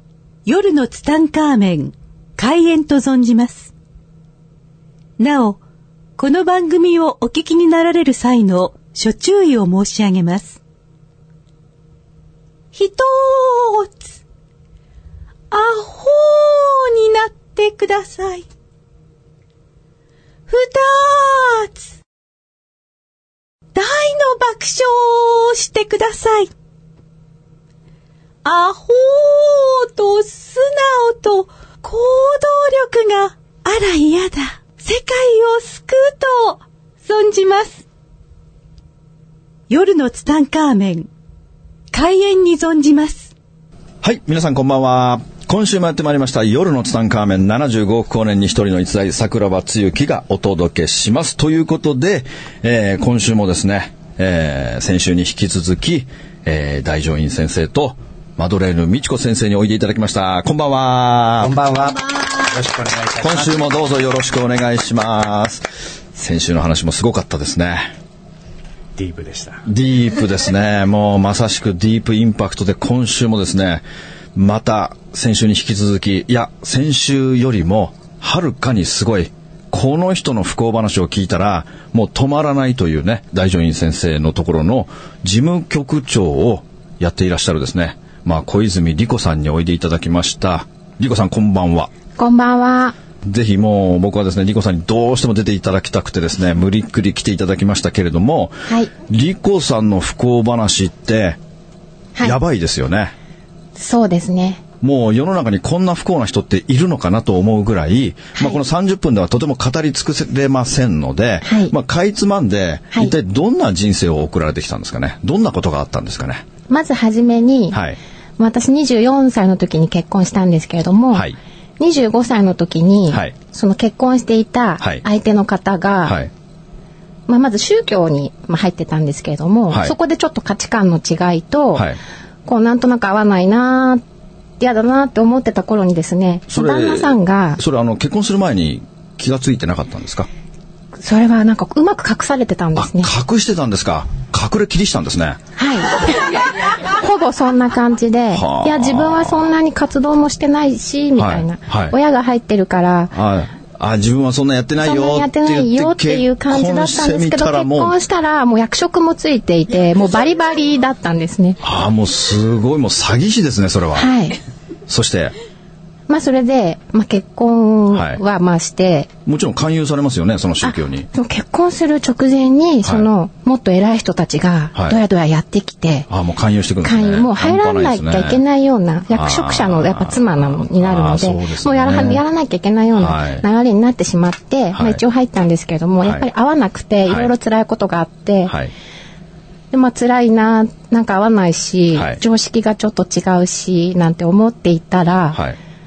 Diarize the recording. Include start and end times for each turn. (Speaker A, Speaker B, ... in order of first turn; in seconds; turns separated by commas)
Speaker A: 0.5-3.7, Speaker A: 5.2-5.6, Speaker A: 6.2-10.6, Speaker A: 12.7-14.2, Speaker A: 15.5-18.5, Speaker A: 20.5-21.9, Speaker A: 23.7-26.5, Speaker A: 28.4-37.8, Speaker A: 39.7-41.1, Speaker A: 41.9-43.3, Speaker B: 44.0-61.6, Speaker C: 61.4-63.6, Speaker B: 63.2-67.9, Speaker C: 69.0-69.6, Speaker B: 69.6-73.8, Speaker B: 74.3-91.9, Speaker D: 92.2-92.9, Speaker B: 93.2-101.4, Speaker B: 102.2-103.1, Speaker D: 103.8-104.6, Speaker B: 104.8-116.4, Speaker D: 111.4-111.7, Speaker D: 116.7-117.8, Speaker B: 117.7-118.0, Speaker D: 118.4-126.2, Speaker B: 123.1-123.3, Speaker B: 126.0-126.3, Speaker D: 127.3-131.8, Speaker D: 132.4-134.0, Speaker D: 134.6-137.6, Speaker B: 136.5-140.3, Speaker D: 141.0-143.1, Speaker B: 142.7-145.4, Speaker D: 145.6-153.1, Speaker B: 148.3-149.4, Speaker B: 151.2-151.9, Speaker B: 153.1-157.9, Speaker D: 154.8-161.6, Speaker B: 161.6-164.1, Speaker D: 163.9-164.4, Speaker B: 164.9-165.3, Speaker D: 166.1-169.1, Speaker B: 167.9-168.2, Speaker B: 169.2-171.1, Speaker D: 170.6-176.1, Speaker B: 172.8-173.1, Speaker B: 176.1-178.4, Speaker D: 176.8-188.5, Speaker B: 179.1-182.2, Speaker B: 182.9-183.4, Speaker B: 184.7-185.0, Speaker B: 187.1-187.3, Speaker B: 188.5-188.7, Speaker D: 189.7-195.4, Speaker B: 191.9-192.2